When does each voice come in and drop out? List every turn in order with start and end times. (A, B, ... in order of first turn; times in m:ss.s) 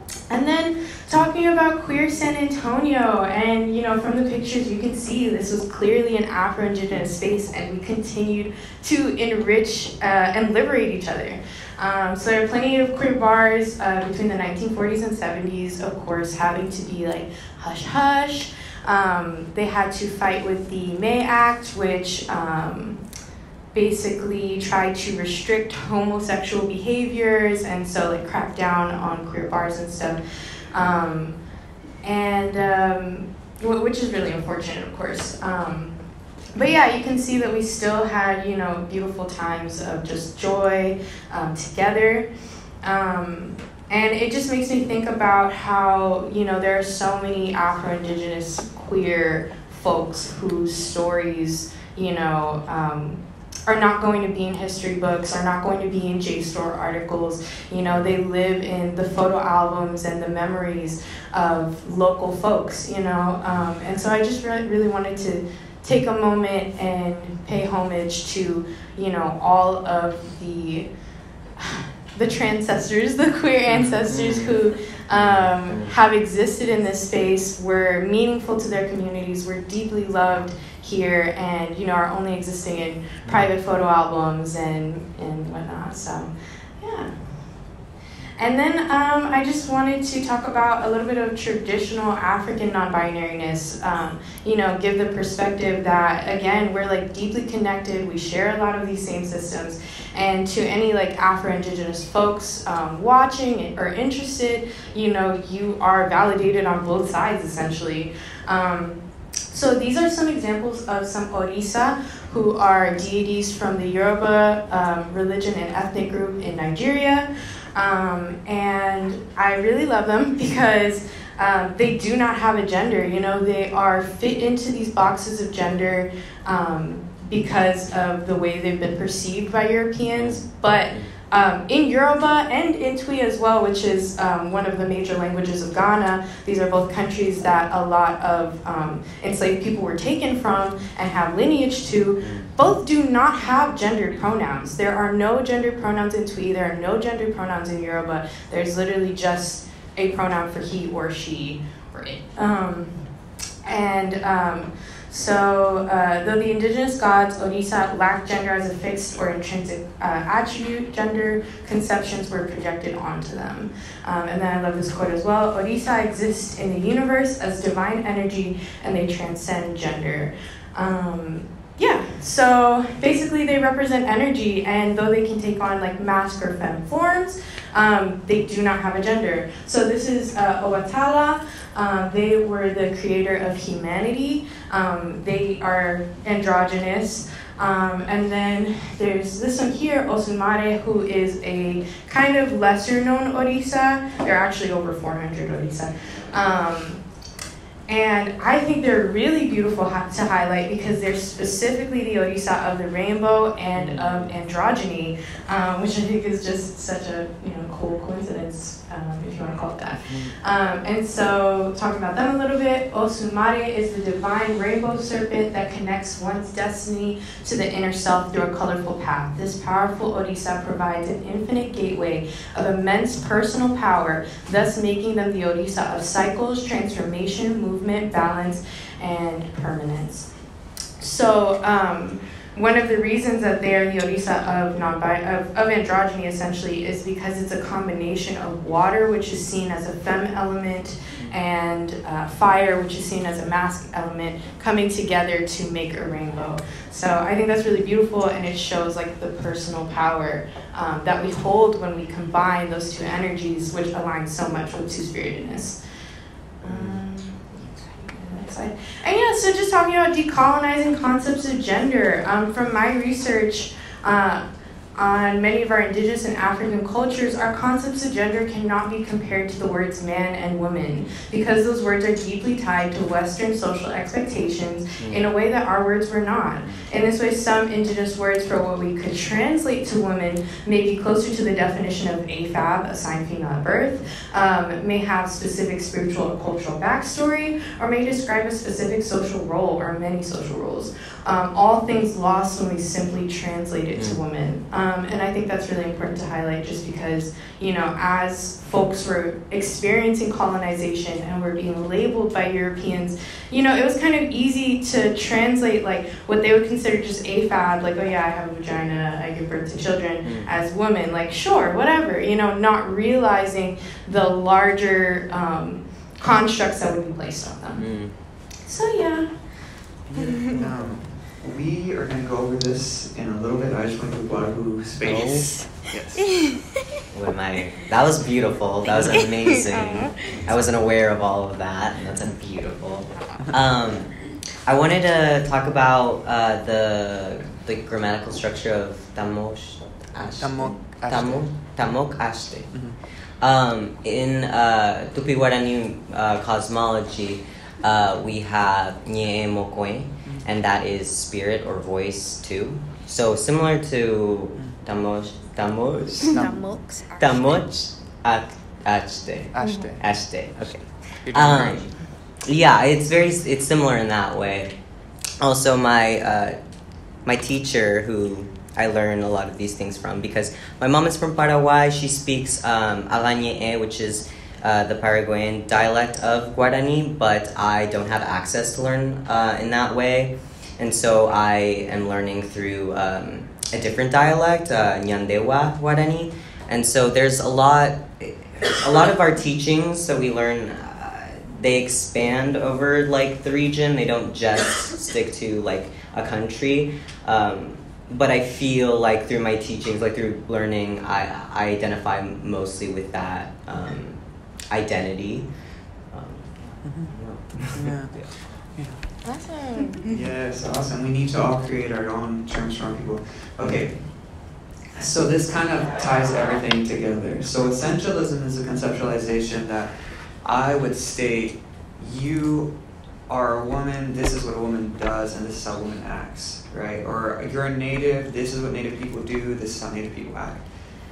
0:00.3-0:23.0 A
0:23.7-0:30.2 A
0:30.7-0:31.4 A
0:32.0-0:35.9 A
0:36.5-0:42.3 A
0:42.8-1:10.9 A
1:11.6-1:27.2 A
1:14.1-1:14.6 B
1:15.1-1:15.9 B
1:28.4-1:49.0 A
1:49.5-2:33.0 A
2:10.2-2:11.1 B
2:22.2-2:22.5 B
2:33.6-3:17.0 A
3:17.9-3:50.3 A
3:23.8-3:24.2 B
3:51.0-4:15.8 A
4:16.6-4:24.4 A
4:16.6-4:17.0 B
4:25.0-5:17.8 A
4:35.0-4:35.2 B
5:10.2-5:10.5 B
5:17.8-5:18.1 B
5:18.7-5:19.3 A
5:20.1-5:26.2 C
5:20.2-5:20.6 A
5:25.0-5:25.5 B
5:26.3-5:26.6 A
5:27.1-5:34.1 B
5:29.0-5:30.5 A
5:34.7-5:42.7 B
5:40.2-5:41.5 C
5:42.7-5:43.0 C
5:43.4-5:56.5 B
5:56.3-5:56.6 C
5:56.3-5:57.2 A
5:57.2-6:01.9 B
5:59.5-6:00.0 C
6:01.2-6:01.9 C
6:02.4-6:04.7 B
6:05.4-6:06.6 B
6:07.3-6:44.2 B
6:44.7-6:45.5 B
6:46.1-6:48.1 B
6:47.7-6:49.0 C
6:49.2-6:50.2 A
6:50.1-6:54.0 C
6:55.0-6:59.9 C
7:00.4-7:02.7 C
7:03.3-7:10.6 C